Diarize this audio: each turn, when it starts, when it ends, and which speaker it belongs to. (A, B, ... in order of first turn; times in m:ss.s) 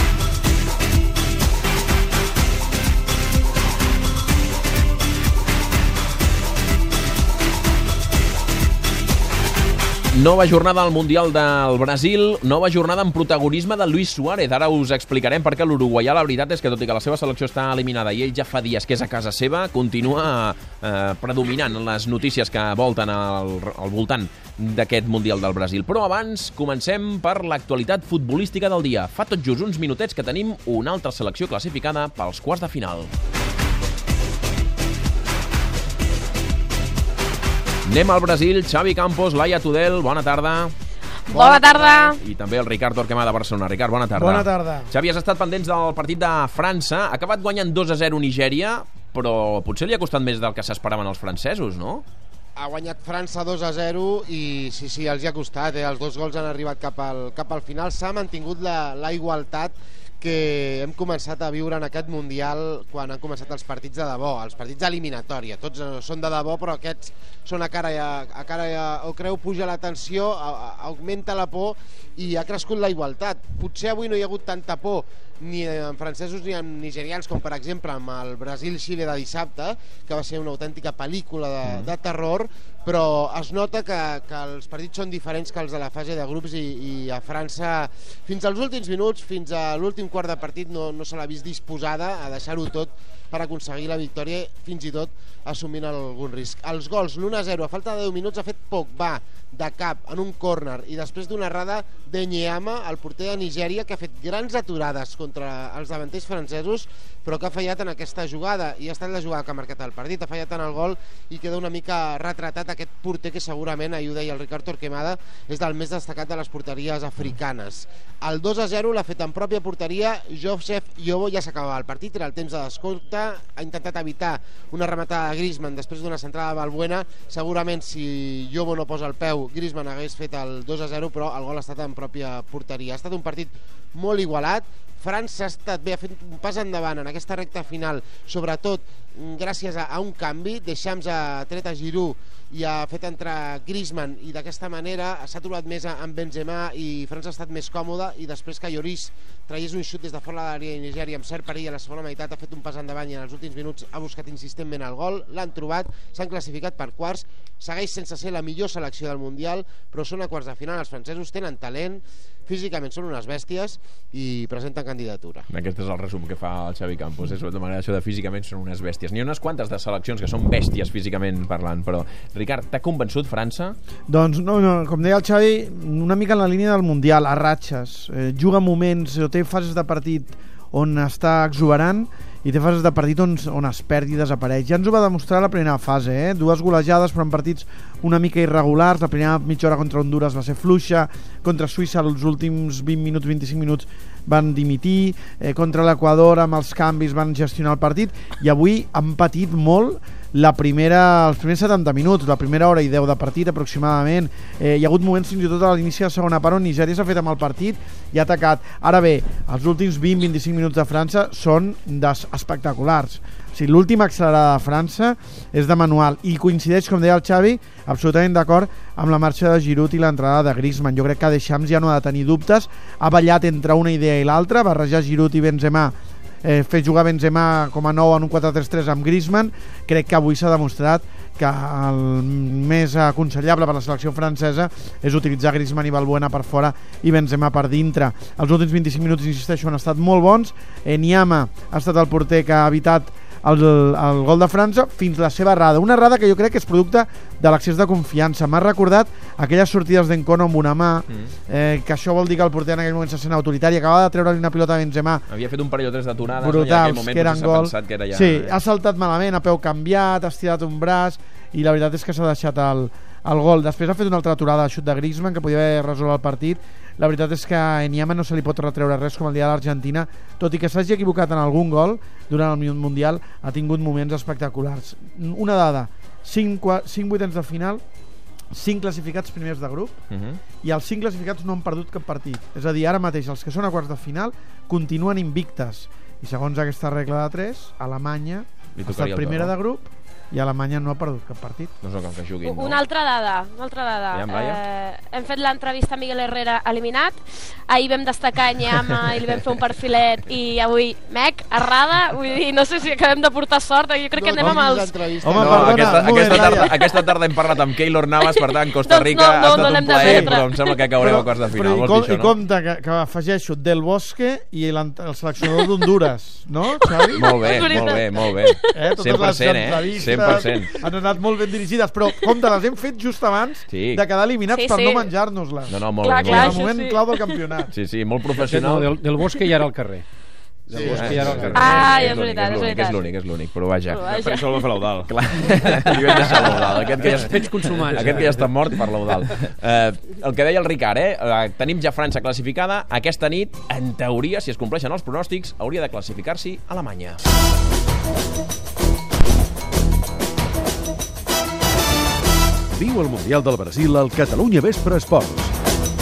0:10.1-0:33.1 A
0:37.8-0:40.7 A
0:41.3-0:42.2 B
0:41.3-0:42.2 C
0:42.2-0:52.0 A
0:44.1-0:44.9 D
0:52.6-2:45.5 B
1:21.6-1:21.9 A
2:45.5-2:53.8 A
2:54.1-4:15.3 D
4:15.3-4:18.6 A
4:16.3-4:37.8 D
4:38.5-4:40.0 D
4:40.1-4:40.4 A
4:40.6-4:51.7 D
4:48.7-4:49.5 A
4:51.8-4:52.8 A
4:52.5-5:04.9 C
4:54.1-4:54.6 A
5:04.1-5:06.7 B
5:04.4-5:04.6 D
5:05.2-5:06.7 D
5:05.4-5:12.4 A
5:08.2-5:10.3 C
5:09.4-5:10.4 D
5:11.0-5:18.0 D
5:17.1-5:20.7 A
5:17.4-5:18.7 C
5:18.7-5:27.7 D
5:23.7-5:24.0 A
5:24.5-5:25.0 C
5:25.7-5:26.7 A
5:26.0-5:27.3 C
5:27.7-5:29.0 A
5:28.4-5:30.0 E
5:30.7-5:32.2 E
5:30.7-5:31.3 B
5:30.8-5:34.0 A
5:31.5-5:32.2 F
5:31.6-5:32.9 C
5:34.0-5:35.1 F
5:34.1-5:34.6 C
5:35.1-5:47.2 A
5:35.7-5:37.2 F
5:37.2-5:38.6 E
5:52.7-5:55.5 G